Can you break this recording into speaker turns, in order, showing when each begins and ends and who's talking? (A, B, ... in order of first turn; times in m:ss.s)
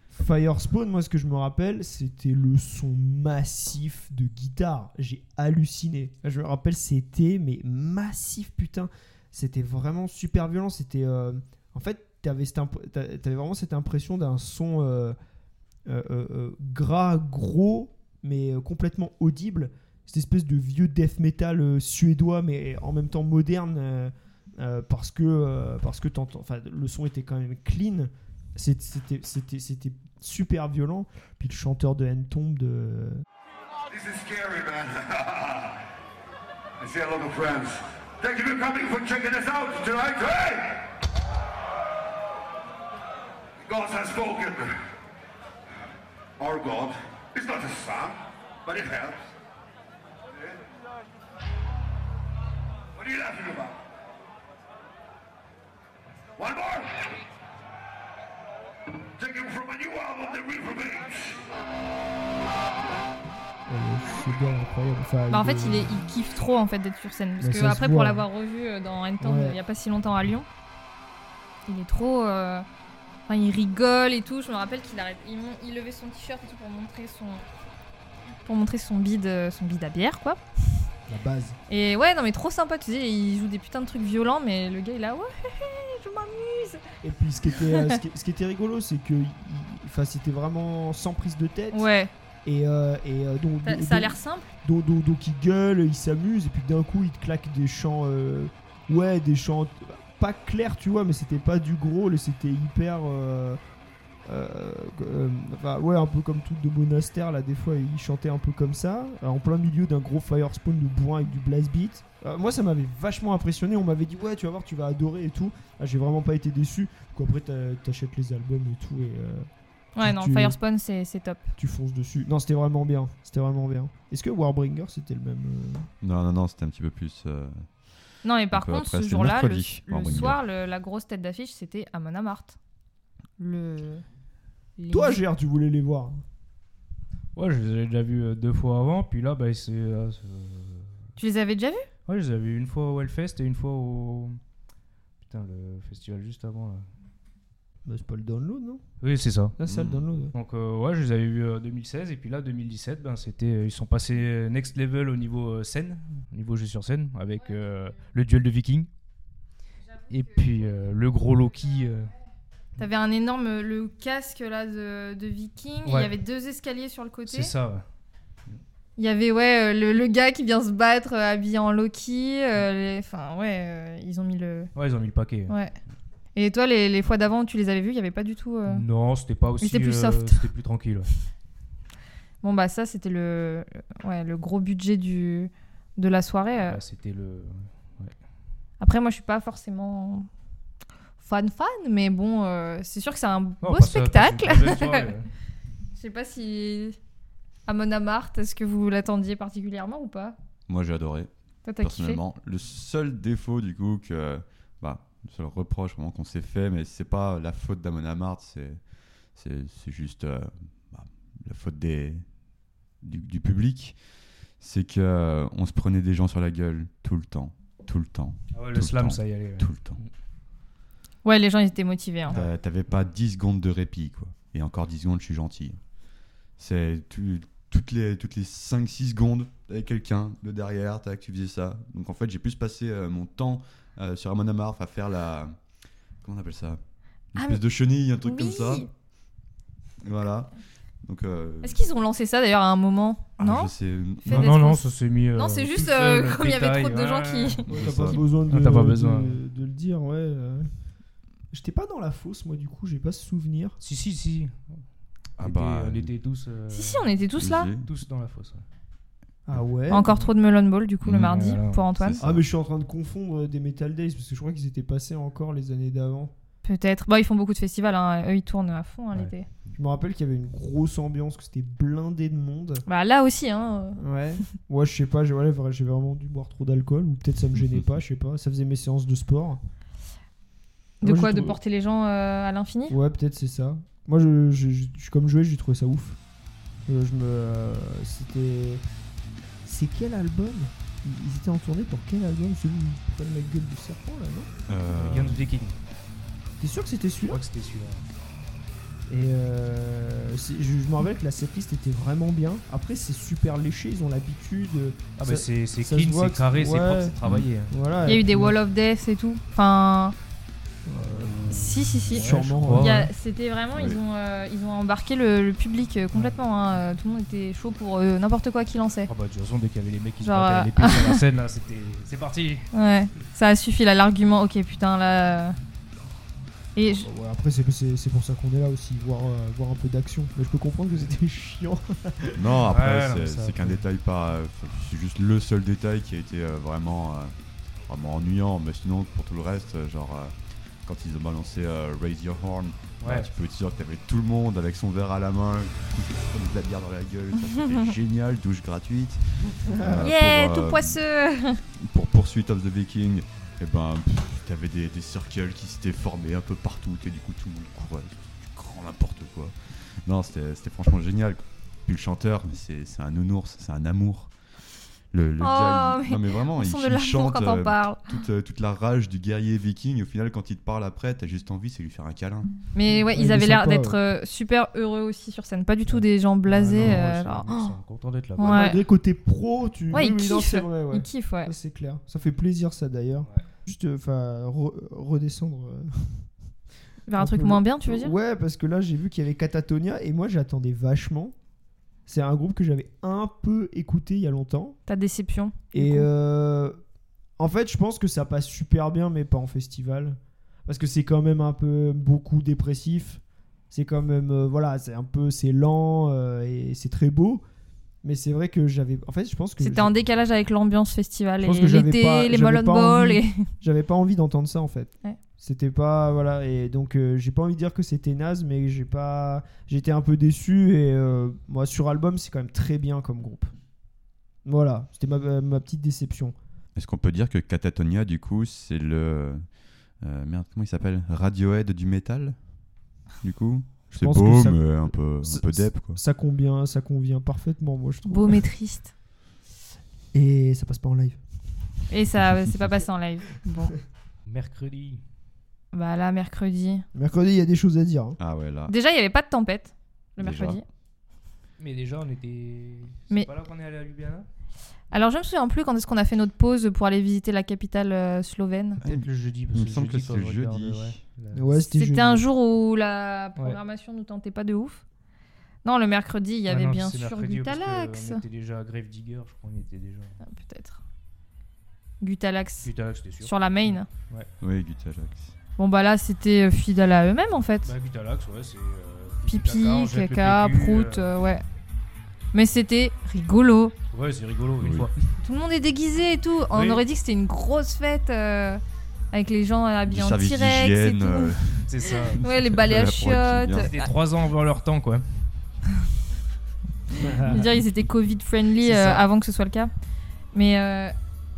0:00.1-0:15.2 A
0:15.8-0:33.2 A
0:33.9-0:35.7 B
0:36.8-0:40.8 B
0:43.6-0:44.8 B
0:46.4-0:49.3 B
0:53.0-0:53.7 B
0:56.4-0:56.8 B
0:59.2-1:01.4 B
1:03.7-1:06.0 A
1:05.3-1:10.5 C
1:07.4-1:08.2 A
1:09.2-1:09.6 A
1:11.7-1:12.6 C
1:13.3-1:17.4 C
1:18.4-1:20.4 C
1:21.1-1:21.6 A
1:21.7-1:26.8 C
1:27.0-1:31.9 A
1:27.5-1:28.0 C
1:31.7-1:32.1 C
1:32.4-1:43.6 A
1:33.6-1:34.5 C
1:44.2-2:00.6 A
2:00.0-2:01.4 C
2:01.6-2:05.9 A
2:06.0-2:07.7 D
2:08.2-2:12.6 C
2:08.5-2:10.4 D
2:13.4-2:14.0 C
2:14.8-2:15.2 C
2:14.9-2:16.2 A
2:17.3-2:21.0 E
2:21.2-2:21.9 C
2:22.1-2:24.4 E
2:25.2-2:26.8 E
2:27.8-2:28.8 A
2:29.0-2:29.5 E
2:29.6-2:30.3 A
2:29.6-2:30.0 D
2:30.3-2:38.9 E
2:40.1-2:42.1 E
2:42.8-2:47.5 C
2:45.8-2:46.1 E
2:47.3-2:47.8 E
2:49.0-2:54.7 C
2:54.7-2:55.5 E
2:55.5-2:55.7 C
2:56.3-2:58.8 C
2:58.7-3:01.1 E
2:59.6-3:00.4 C
3:02.4-3:06.8 C
3:06.6-3:08.1 E
3:08.8-3:10.3 C
3:11.2-3:15.1 C
3:13.6-3:15.3 E
3:15.9-3:17.0 C
3:17.7-3:20.4 C
3:20.7-3:21.3 D
3:21.6-3:22.2 C
3:21.8-3:28.8 D
3:29.3-3:32.2 D
3:33.0-3:34.0 D
3:34.6-3:40.0 D
3:38.5-3:40.1 E
3:41.2-3:42.4 C
3:42.3-3:45.8 D
3:46.6-3:55.5 D
3:56.2-3:56.8 D
3:57.3-3:58.8 D
3:58.2-3:58.9 C
4:00.0-4:00.5 D
4:01.0-4:01.8 D
4:01.6-4:03.7 C
4:03.4-4:04.6 D
4:04.2-4:07.6 C
4:04.3-4:07.7 E
4:07.7-4:10.7 A
4:07.7-4:08.3 D
4:08.5-4:09.4 E
4:11.5-4:13.8 A
4:13.8-4:14.8 E
4:15.4-4:16.1 D
4:15.4-4:17.1 E
4:16.7-4:17.7 C
4:17.4-4:17.9 D
4:17.8-4:18.6 E
4:19.5-4:20.1 A
4:19.9-4:22.2 C
4:21.0-4:21.3 D
4:21.1-4:21.8 E
4:22.0-4:22.4 D
4:22.2-4:26.3 A
4:26.6-4:29.5 C
4:29.7-4:32.8 A
4:32.8-4:34.0 C
4:34.0-4:39.6 A
4:41.0-4:43.0 C
4:41.0-4:41.6 A
4:42.9-4:46.2 A
4:46.8-4:48.8 A
4:49.6-4:55.4 A
4:54.7-4:55.5 D
4:54.9-4:55.8 E
4:56.6-4:57.4 A
4:57.3-4:58.0 E
4:59.1-5:07.2 A
5:05.2-5:07.8 E
5:07.7-5:08.6 A
5:08.0-5:10.1 C
5:10.8-5:11.4 A
5:11.0-5:13.1 E
5:11.5-5:19.1 C
5:12.1-5:13.1 A
5:13.7-5:14.0 D
5:19.0-5:22.7 E
5:20.2-5:21.2 C
5:22.7-5:25.6 C
5:26.7-5:27.0 C
5:26.9-5:32.6 A
5:32.3-5:37.3 D
5:32.7-5:33.8 E
5:37.8-5:51.0 D
5:43.0-5:43.3 E
5:49.6-5:50.1 A
5:50.0-5:51.6 C
5:51.8-5:59.5 D
6:00.0-6:04.3 D
6:05.1-6:12.5 D
6:05.4-6:08.1 C
6:12.7-6:17.7 C
6:12.9-6:14.0 A
6:15.9-6:18.7 E
6:16.6-6:17.3 A
6:18.4-6:18.8 C
6:18.4-6:26.3 A
6:19.9-6:21.5 C
6:27.1-6:28.1 C
6:27.2-6:31.3 A
6:32.0-6:34.8 A
6:34.9-6:36.1 C
6:35.7-6:36.8 A
6:37.4-6:47.4 A
6:48.0-6:49.9 A
6:49.6-6:53.5 C
6:51.4-7:03.5 A
7:04.4-7:06.4 A
7:06.8-7:09.4 D
7:10.0-7:12.4 D
7:13.2-7:16.0 D
7:13.9-7:18.4 A
7:18.1-7:18.9 C
7:20.1-7:21.2 A
7:21.9-7:23.7 C
7:24.2-7:25.0 E
7:25.7-7:26.8 C
7:26.9-7:28.2 A
7:28.2-7:28.7 D
7:28.7-7:30.6 C
7:30.2-7:30.6 D
7:31.6-7:34.3 E
7:34.9-7:38.8 C
7:38.8-7:41.0 D
7:38.8-7:41.5 E
7:41.3-7:42.2 A
7:41.7-7:44.8 C
7:45.6-7:48.2 C
7:46.4-7:50.2 E
7:50.2-7:50.8 C
7:52.0-7:53.9 C
7:52.6-7:54.3 E
7:54.4-7:55.3 D
7:55.6-7:57.7 C
7:57.6-8:01.1 E
7:59.3-8:01.4 C
8:02.3-8:03.7 C
8:03.9-8:05.0 E
8:04.6-8:04.9 D
8:05.2-8:08.6 C
8:06.5-8:06.8 E
8:09.1-8:11.3 C
8:09.9-8:13.7 D
8:11.7-8:12.2 E
8:12.1-8:13.9 C
8:13.6-8:15.3 E
8:16.9-8:19.7 C
8:17.0-8:17.5 A
8:18.6-8:19.0 A
8:20.3-8:20.9 C